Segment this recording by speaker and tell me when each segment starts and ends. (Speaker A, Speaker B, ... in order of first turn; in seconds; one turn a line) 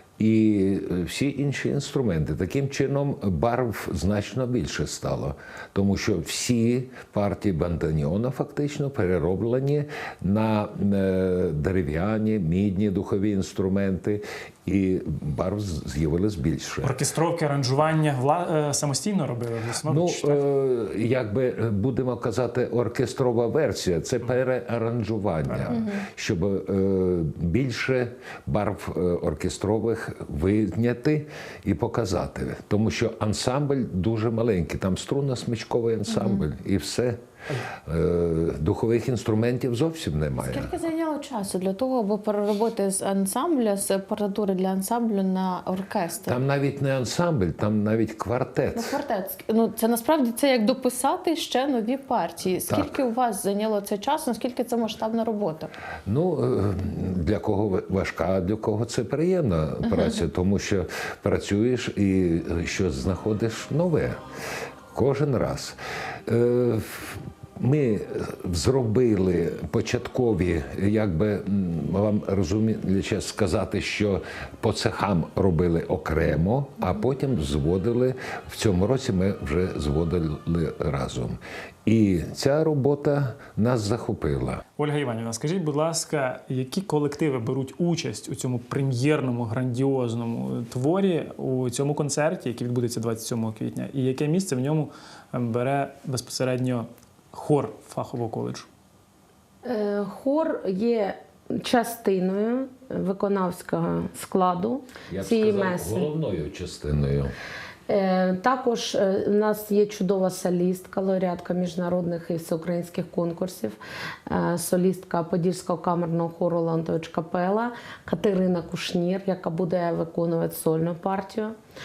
Speaker A: 0.2-17.0
Speaker B: 16.8-20.4
Speaker A: 19.9-37.2
Speaker C: 25.7-26.0
Speaker C: 36.1-36.4
Speaker A: 37.8-40.7
Speaker C: 40.4-46.4
Speaker A: 46.2-49.0
Speaker C: 48.7-55.7
Speaker A: 52.6-53.0
Speaker A: 56.1-64.2
Speaker C: 59.8-60.2
Speaker A: 64.9-84.6
Speaker B: 84.8-98.7
Speaker D: 99.6-106.1
Speaker A: 105.1-107.3
Speaker D: 107.9-121.5